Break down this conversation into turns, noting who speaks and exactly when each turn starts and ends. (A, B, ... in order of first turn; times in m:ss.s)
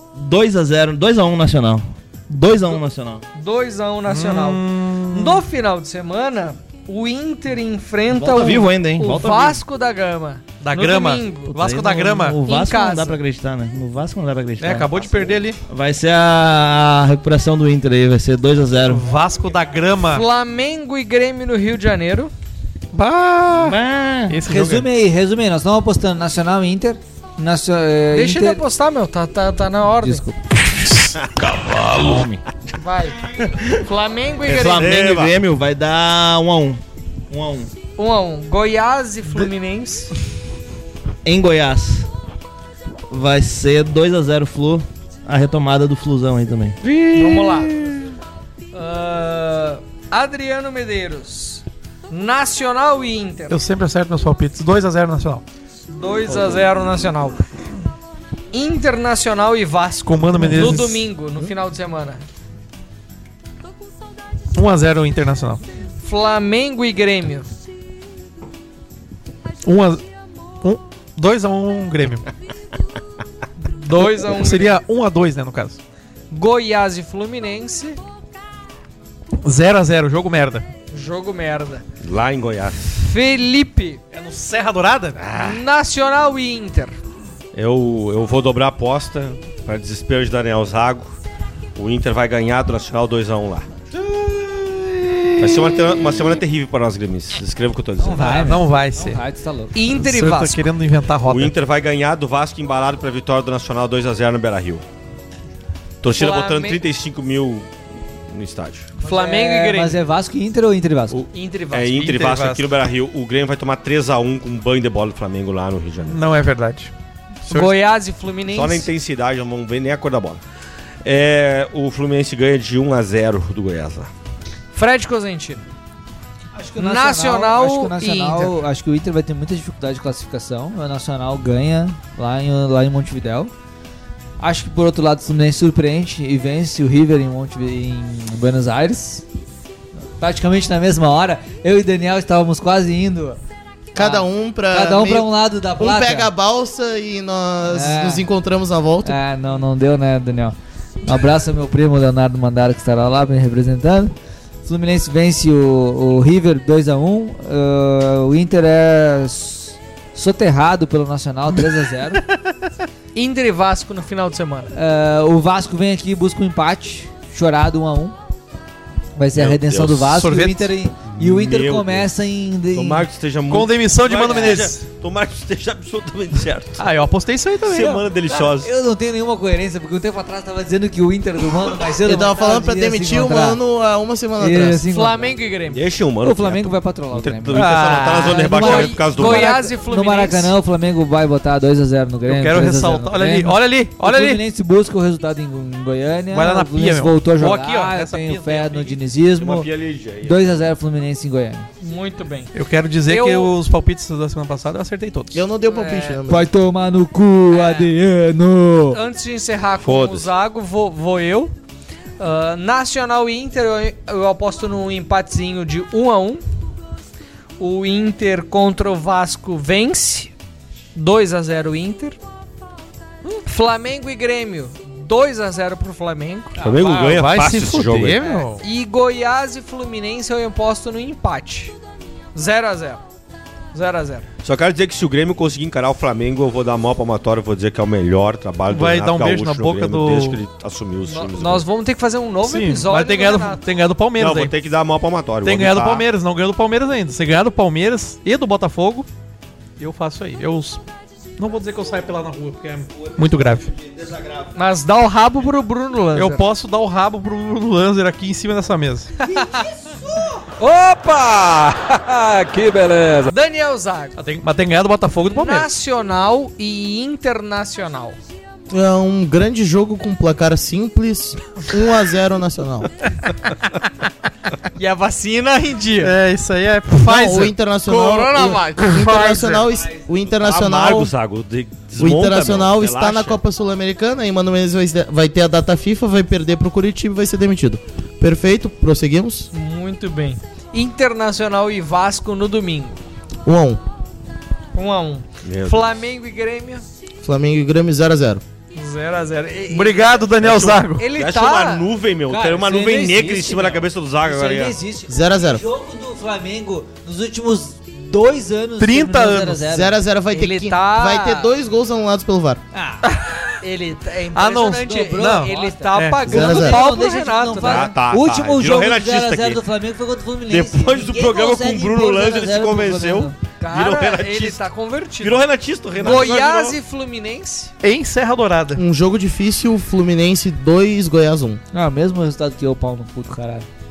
0:00.2-0:03.2 A
0:03.3-0:11.5 B
0:04.1-0:05.4 C
0:08.1-0:09.6 A
0:10.6-0:12.4 C
0:11.5-0:19.0 A
0:12.4-0:13.2 B
0:14.6-0:15.6 C
0:18.9-0:20.2 C
0:20.1-0:22.3 B
0:22.9-0:23.8 C
0:23.5-0:24.4 A
0:24.3-0:24.9 C
0:24.4-0:28.6 D
0:28.1-0:30.2 B
0:30.0-0:30.4 D
0:31.2-0:31.5 E
0:31.4-0:32.4 A
0:32.7-0:34.9 B
0:34.5-0:37.7 A
0:34.7-0:35.4 E
0:38.0-0:40.1 B
0:41.2-0:42.1 A
0:43.1-0:46.8 A
0:47.2-0:47.7 B
0:48.7-0:53.6 B
0:53.5-0:55.4 C
0:55.9-0:57.4 B
0:58.5-1:02.2 B
1:00.0-1:01.0 C
1:04.5-1:05.6 C
1:06.0-1:07.5 B
1:09.6-1:10.0 C
1:10.6-1:12.3 C
1:13.6-1:14.8 B
1:13.9-1:15.8 C
1:16.3-1:18.0 B
1:19.4-1:20.6 C
1:20.9-1:21.8 B
1:22.0-1:23.0 E
1:23.0-1:24.0 B
1:24.1-1:25.3 C
1:25.2-1:25.6 E
1:25.3-1:27.0 B
1:27.5-1:31.2 E
1:31.8-1:33.9 E
1:35.4-1:38.6 E
1:38.0-1:39.8 D
1:38.1-1:39.2 C
1:39.7-1:40.6 B
1:39.8-1:41.6 C
1:41.3-1:44.8 E
1:46.0-1:47.7 E
1:46.2-1:46.8 B
1:48.3-1:48.9 E
1:49.0-1:50.0 B
1:49.0-1:51.2 D
1:51.1-1:56.3 E
1:51.3-1:52.4 B
1:52.0-1:52.7 C
1:56.0-1:56.9 C
1:57.5-1:58.9 B
1:57.5-1:57.7 C
1:58.5-2:00.4 E
2:01.0-2:04.1 E
2:04.7-2:05.6 B
2:06.5-2:13.5 D
2:06.8-2:08.6 B
2:14.4-2:19.2 D
2:20.2-2:23.4 D
2:23.9-2:29.2 F
2:24.0-2:26.3 D
2:27.7-2:28.3 D
2:29.0-2:34.1 D
2:34.6-2:42.3 D
2:43.2-2:44.7 B
2:44.7-2:48.2 D
2:49.2-2:53.1 D
2:49.4-2:50.2 E
2:50.1-2:50.7 C
2:51.1-2:52.1 E
2:52.7-2:56.9 E
2:53.5-2:54.9 C
2:54.2-2:54.5 D
2:56.8-2:58.0 C
2:57.7-2:58.7 E
2:57.8-3:03.6 D
3:02.0-3:04.8 F
3:04.4-3:05.4 D
3:04.9-3:05.8 B
3:05.7-3:09.6 E
3:06.2-3:19.7 D
3:07.5-3:08.8 C
3:08.0-3:10.5 B
3:12.3-3:14.4 C
3:16.3-3:19.0 C
3:19.4-3:20.6 E
3:20.2-3:21.7 D
3:21.8-3:22.5 B
3:22.5-3:25.4 C
3:23.1-3:23.5 B
3:25.3-3:26.5 F
3:25.7-3:26.2 B
3:26.3-3:29.0 D
3:27.5-3:27.9 B
3:28.9-3:31.5 B
3:29.8-3:30.3 E
3:32.2-3:36.4 B
3:37.6-3:40.3 B
3:41.0-3:42.2 B
3:43.4-3:46.6 B
3:46.6-3:48.3 E
3:46.6-3:48.6 C
3:48.2-3:51.7 B
3:52.4-3:53.0 B
3:53.7-3:54.3 B
3:54.4-4:01.7 E
3:58.7-4:00.4 C
4:01.1-4:03.6 B
4:02.4-4:04.5 C
4:04.2-4:06.1 E
4:05.4-4:09.1 C
4:09.8-4:10.8 C
4:11.4-4:13.7 C
4:13.0-4:14.5 A
4:14.6-4:16.4 B
4:16.1-4:19.1 C
4:19.2-4:19.7 B
4:19.3-4:23.3 D
4:23.3-4:24.1 B
4:24.2-4:25.7 C
4:25.3-4:28.2 B
4:28.7-4:32.9 F
4:34.8-4:36.1 B
4:36.0-4:37.5 C
4:37.0-4:41.1 F
4:37.8-4:39.7 B
4:40.3-4:43.4 E
4:42.0-4:49.5 F
4:49.5-4:53.0 B
4:53.4-4:53.8 F
4:54.7-4:56.8 B
4:55.4-4:55.8 E
4:57.2-4:58.4 F
4:58.8-5:00.3 B
4:59.7-5:01.1 C
5:00.4-5:04.8 E
5:00.9-5:01.9 B
5:02.3-5:10.0 D
5:05.1-5:05.6 F
5:08.8-5:09.7 C
5:09.7-5:12.6 F
5:10.3-5:11.5 B
5:12.7-5:13.1 D
5:13.1-5:13.4 C
5:13.6-5:18.0 B
5:14.3-5:16.2 C
5:14.9-5:23.4 D
5:16.2-5:16.8 F
5:17.6-5:19.6 E
5:20.5-5:24.6 E
5:23.6-5:25.4 B
5:25.2-5:26.8 E
5:26.0-5:27.7 B
5:27.8-5:28.8 C
5:28.8-5:31.6 F
5:31.7-5:33.7 D